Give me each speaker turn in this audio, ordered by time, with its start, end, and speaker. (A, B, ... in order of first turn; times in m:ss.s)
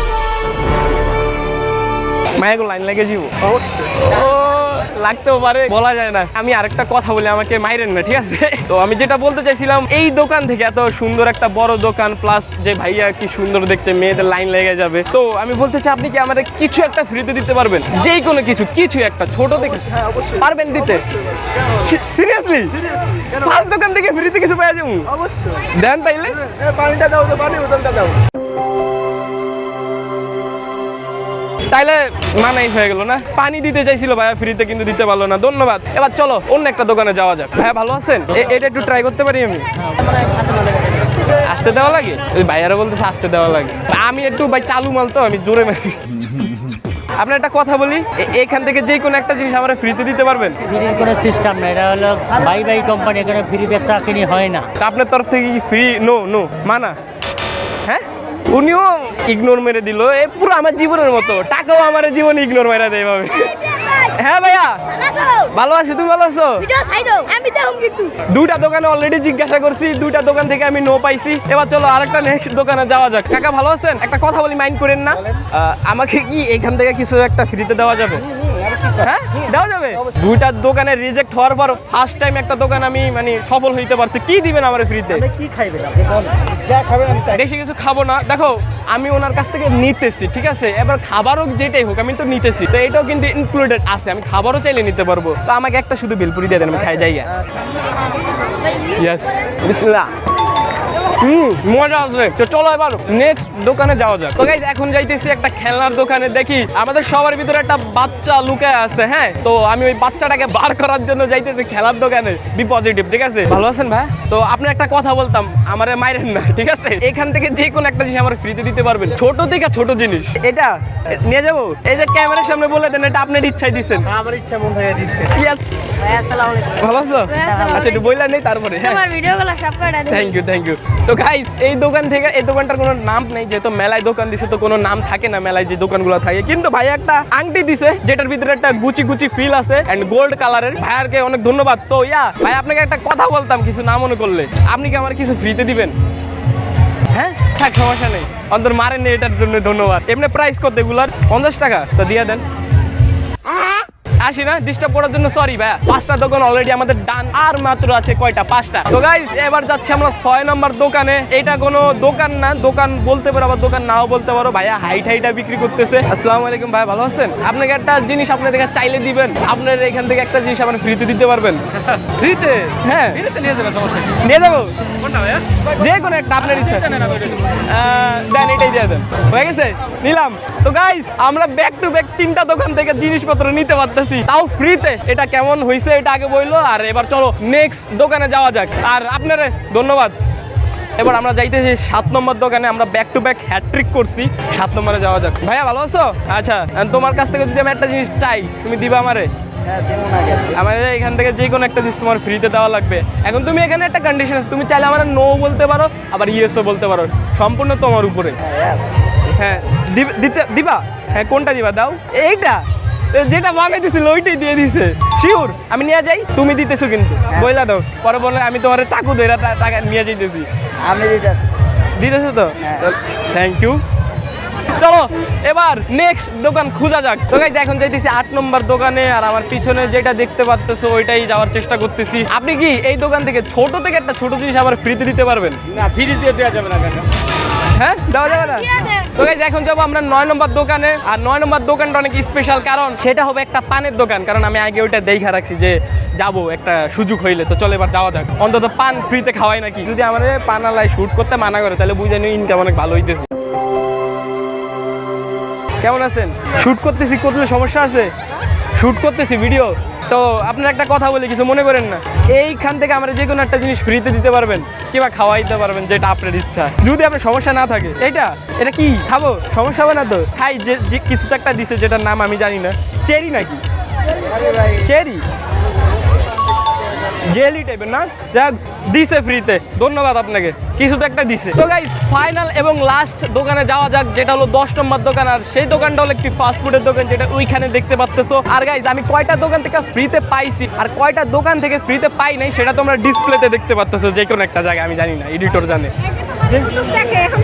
0:02.4-0:28.2 A
0:31.7-0:40.1 A
0:41.2-0:50.9 A
0:50.8-0:54.7 B
0:54.8-0:57.0 A
0:57.8-1:06.9 A
1:06.8-1:08.1 C
1:08.1-1:18.3 A
1:18.9-1:25.4 A
1:25.4-1:27.3 D
1:27.2-1:37.3 A
1:38.9-1:40.1 A
1:41.2-2:04.3 A
2:04.2-2:05.1 D
2:05.1-2:09.1 A
2:06.3-2:06.6 D
2:09.0-2:10.2 C
2:10.0-2:25.9 A
2:27.1-2:32.4 A
2:34.2-3:10.2 A
3:11.0-3:19.3 A
3:19.7-3:20.5 D
3:20.3-3:40.5 A
3:28.5-3:28.9 D
3:40.8-3:41.5 D
3:42.0-3:43.8 A
3:44.7-3:57.0 A
3:57.7-4:13.3 A
4:15.8-4:18.1 A
4:18.8-4:33.6 A
4:34.3-4:35.2 A
4:37.2-4:57.1 A